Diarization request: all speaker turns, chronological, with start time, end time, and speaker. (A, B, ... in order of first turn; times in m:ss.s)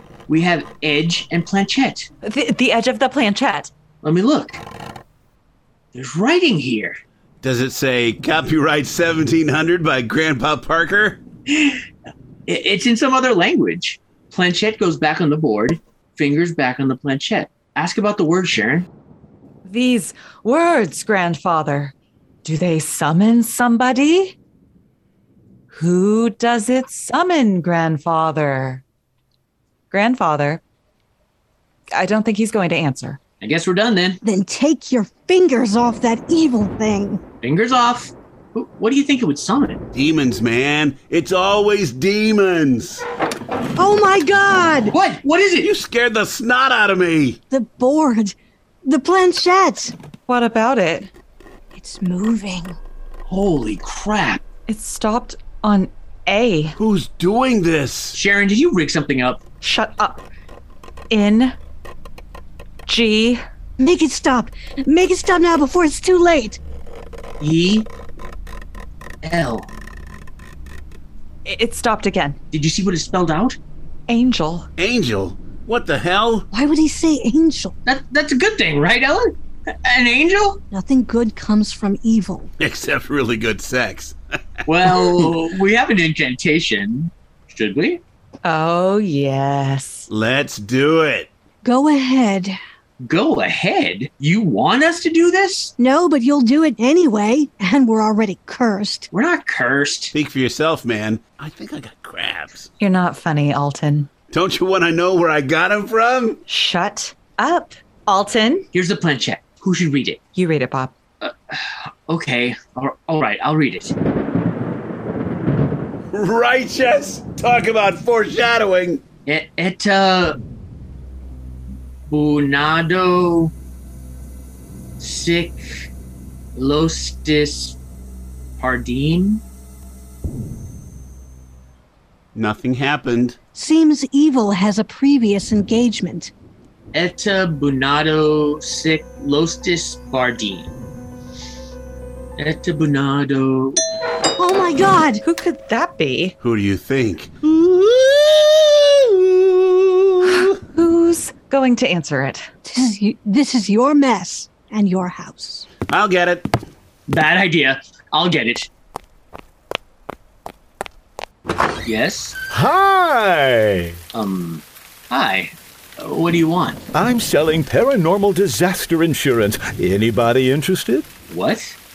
0:00.3-0:02.1 A
0:02.2-0:03.7 B
0:04.0-0:04.6 A
0:05.9-0:07.0 A
0:07.4-0:11.2 C
0:11.5-0:11.8 A
0:12.5-0:18.9 A
0:19.6-0:24.4 B
0:25.7-0:28.8 B
0:29.9-0:30.6 B
0:31.9-0:33.2 B
0:33.4-0:34.2 A
0:34.2-0:37.2 D
0:37.4-0:39.8 A
0:39.9-0:43.0 C
0:43.8-0:44.9 D
0:44.9-0:45.7 A
0:45.6-0:47.4 C
0:47.5-0:49.9 D
0:50.3-0:51.1 B
0:51.7-0:52.8 D
0:53.3-0:54.4 A
0:54.7-0:56.8 B
0:56.8-0:58.2 C
0:58.2-0:59.4 A
0:59.6-1:00.2 B
1:01.1-1:01.6 B
1:02.9-1:03.4 B
1:03.8-1:06.6 D
1:07.4-1:07.9 A
1:09.2-1:09.7 A
1:11.4-1:12.4 B
1:12.5-1:13.6 A
1:14.1-1:14.7 B
1:14.8-1:16.5 C
1:16.5-1:17.8 D
1:17.8-1:20.6 A
1:20.7-1:22.5 D
1:22.6-1:24.2 C
1:24.7-1:28.0 A
1:24.7-1:25.3 C
1:28.4-1:30.1 B
1:30.1-1:31.3 C
1:31.6-1:32.6 D
1:33.0-1:35.7 A
1:35.8-1:39.1 D
1:39.1-1:40.1 A
1:40.1-1:42.7 C
1:42.8-1:44.1 B
1:44.3-1:46.4 C
1:46.5-1:48.7 B
1:48.7-1:50.2 A
1:50.4-1:51.0 B
1:51.2-1:53.9 A
1:56.1-1:59.0 C
1:59.3-2:00.4 A
2:02.1-2:03.5 A
2:05.0-2:05.9 A
2:06.6-2:07.8 A
2:08.6-2:09.4 A
2:12.4-2:13.4 C
2:13.6-2:16.3 D
2:16.9-2:20.7 A
2:22.4-2:23.8 A
2:24.4-2:25.2 D
2:25.2-2:26.4 B
2:26.4-2:30.6 C
2:30.2-2:32.5 B
2:32.6-2:35.7 D
2:35.9-2:36.5 C
2:37.1-2:38.7 A
2:41.8-2:42.4 A
2:42.5-2:44.0 E
2:44.1-2:46.8 A
2:46.9-2:51.1 E
2:51.3-2:51.8 A